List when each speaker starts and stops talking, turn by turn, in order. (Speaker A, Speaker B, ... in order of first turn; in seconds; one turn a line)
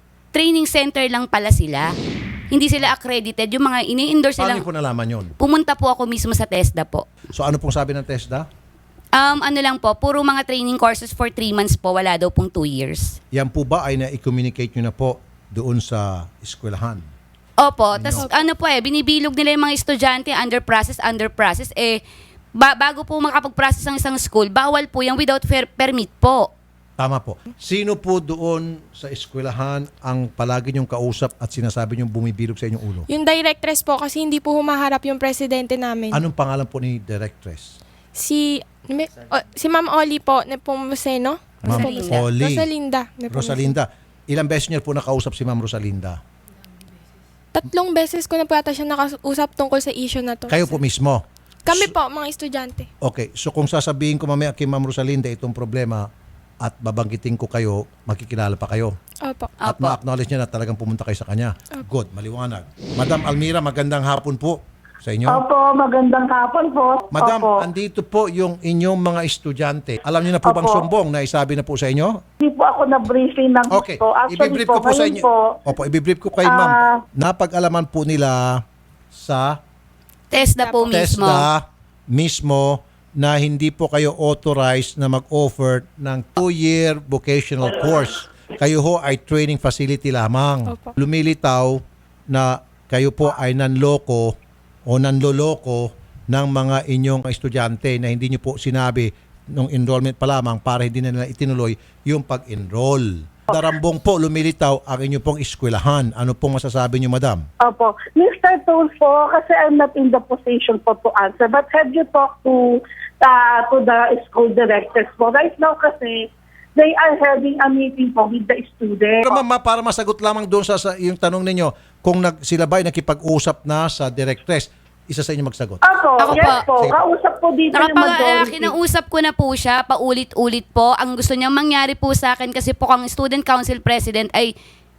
Speaker A: 0.3-1.9
Speaker A: 2.5-4.6
Speaker B: 4.4-5.3
Speaker A: 5.4-7.0
Speaker B: 7.3-8.5
Speaker A: 9.2-13.2
Speaker B: 13.3-17.1
Speaker A: 17.6-22.0
Speaker B: 17.9-18.3
Speaker C: 18.2-18.5
Speaker A: 22.6-26.5
Speaker B: 27.0-33.1
Speaker C: 33.1-36.2
Speaker B: 36.1-37.7
Speaker C: 38.1-43.7
Speaker B: 41.6-42.7
Speaker A: 41.7-42.2
Speaker B: 43.3-46.2
Speaker C: 47.5-50.8
Speaker B: 50.5-51.9
Speaker C: 51.6-52.9
Speaker B: 53.0-56.0
Speaker B: 56.6-58.9
Speaker C: 59.2-59.5
Speaker A: 59.6-60.0
Speaker B: 59.6-65.4
Speaker D: 65.3-67.6
Speaker B: 67.1-72.2
Speaker D: 70.4-70.8
Speaker D: 72.4-75.6
Speaker B: 73.7-78.6
Speaker D: 76.4-77.0
Speaker B: 79.1-79.6
Speaker A: 80.3-81.5
Speaker B: 80.8-94.3
Speaker C: 90.7-90.9
Speaker B: 94.9-107.4
Speaker D: 107.6-119.4
Speaker B: 119.2-127.0
Speaker D: 125.8-128.7
Speaker A: 126.2-126.6
Speaker A: 127.7-134.5